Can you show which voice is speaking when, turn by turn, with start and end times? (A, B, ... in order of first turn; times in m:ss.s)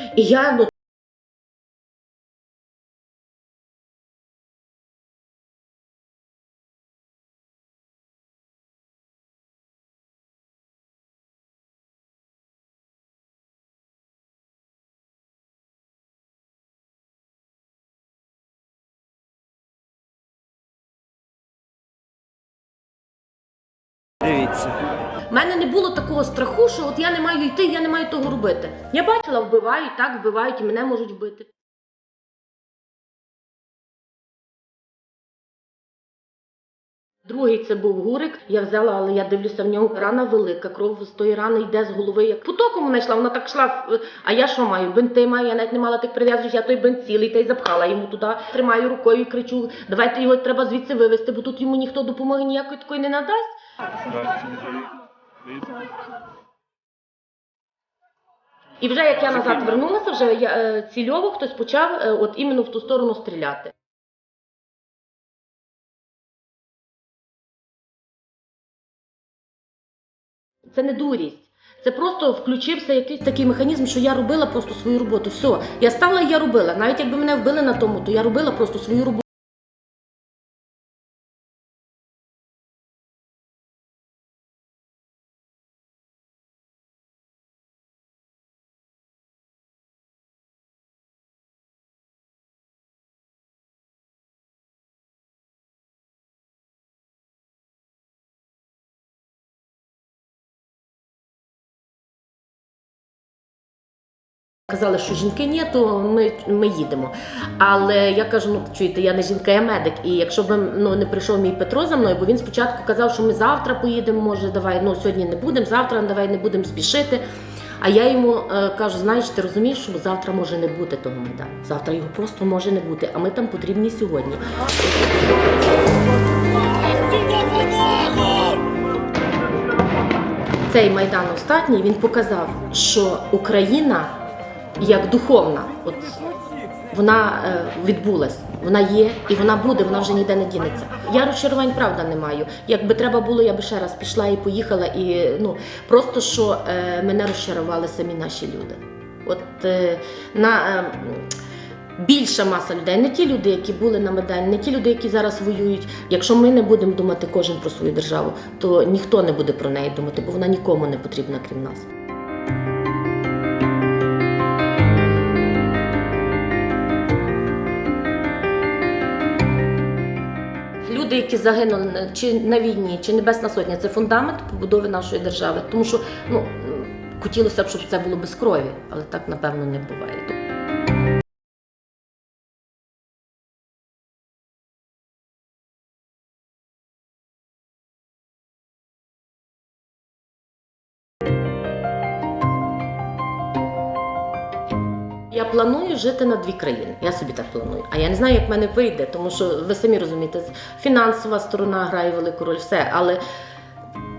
0:00.2-0:00.7 A
0:25.3-0:31.5 A
0:37.2-0:53.6 A
0:58.8-1:03.7 A
1:10.7-1:19.2 A
1:44.7-1:57.2 A
1:57.8-2:04.6 A
2:10.7-2:14.1 A
2:14.8-2:16.2 A
2:16.9-2:31.3 A
2:32.0-2:41.9 A
2:50.8-3:00.3 A
3:15.3-3:23.2 A